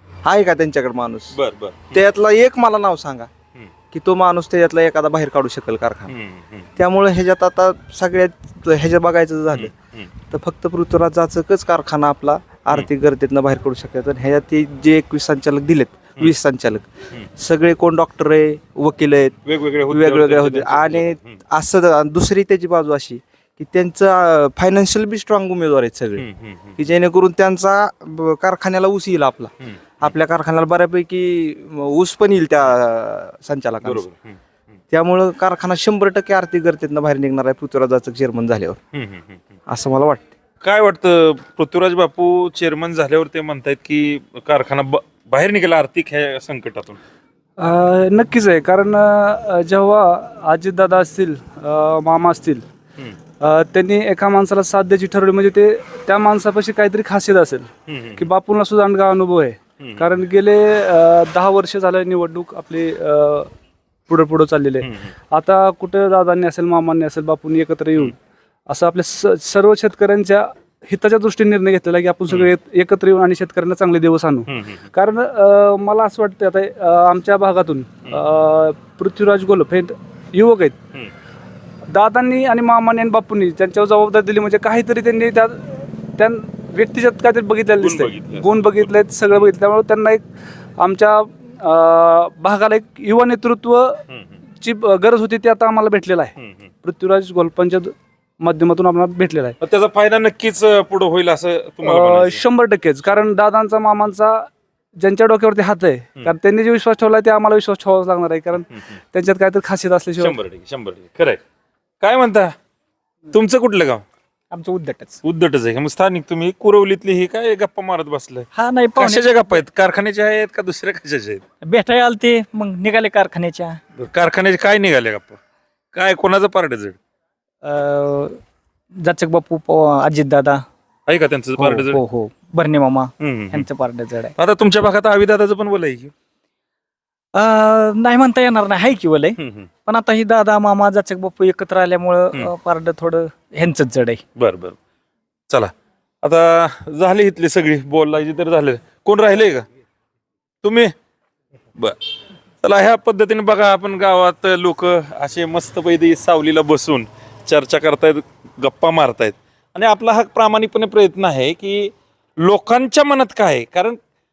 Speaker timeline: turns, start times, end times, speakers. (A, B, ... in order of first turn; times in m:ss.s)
0:00.2-0:01.4 A
0:01.3-0:02.0 B
0:01.9-0:03.3 A
0:03.9-0:06.1 A
0:06.1-0:06.7 B
0:06.8-0:09.7 A
0:09.5-0:10.1 B
0:10.3-0:19.4 A
0:19.4-0:21.4 B
0:19.9-0:26.2 A
0:26.2-0:26.8 B
0:26.8-0:34.0 A
0:29.6-0:30.1 B
0:33.8-0:34.4 B
0:34.9-0:38.8 A
0:38.9-0:39.4 B
0:39.7-0:40.3 A
0:40.6-0:47.0 B
0:47.6-0:52.6 C
0:53.4-1:03.5 C
0:57.9-0:58.3 B
0:59.8-1:00.2 B
1:04.1-1:08.1 C
1:04.8-1:05.1 B
1:08.7-1:20.8 C
1:12.3-1:12.5 B
1:14.5-1:14.8 B
1:21.9-1:30.2 C
1:27.8-1:29.5 B
1:30.8-1:34.0 C
1:34.6-1:36.3 C
1:36.4-1:36.7 B
1:36.8-1:39.6 C
1:39.6-1:42.5 B
1:41.8-1:44.5 C
1:45.0-1:50.4 C
1:50.2-1:51.4 B
1:52.0-1:52.5 B
1:53.3-1:54.0 B
1:54.5-1:55.2 D
1:55.2-2:01.4 B
1:58.5-1:59.6 D
2:01.6-2:03.8 D
2:04.0-2:05.4 B
2:05.9-2:07.0 B
2:07.6-2:08.4 D
2:09.0-2:10.6 D
2:11.1-2:12.0 B
2:11.6-2:14.3 D
2:13.2-2:13.7 B
2:14.4-2:16.1 B
2:17.4-2:24.2 D
2:19.4-2:19.7 B
2:24.4-2:24.8 B
2:26.2-2:29.6 B
2:30.6-2:30.9 B
2:32.6-2:44.0 B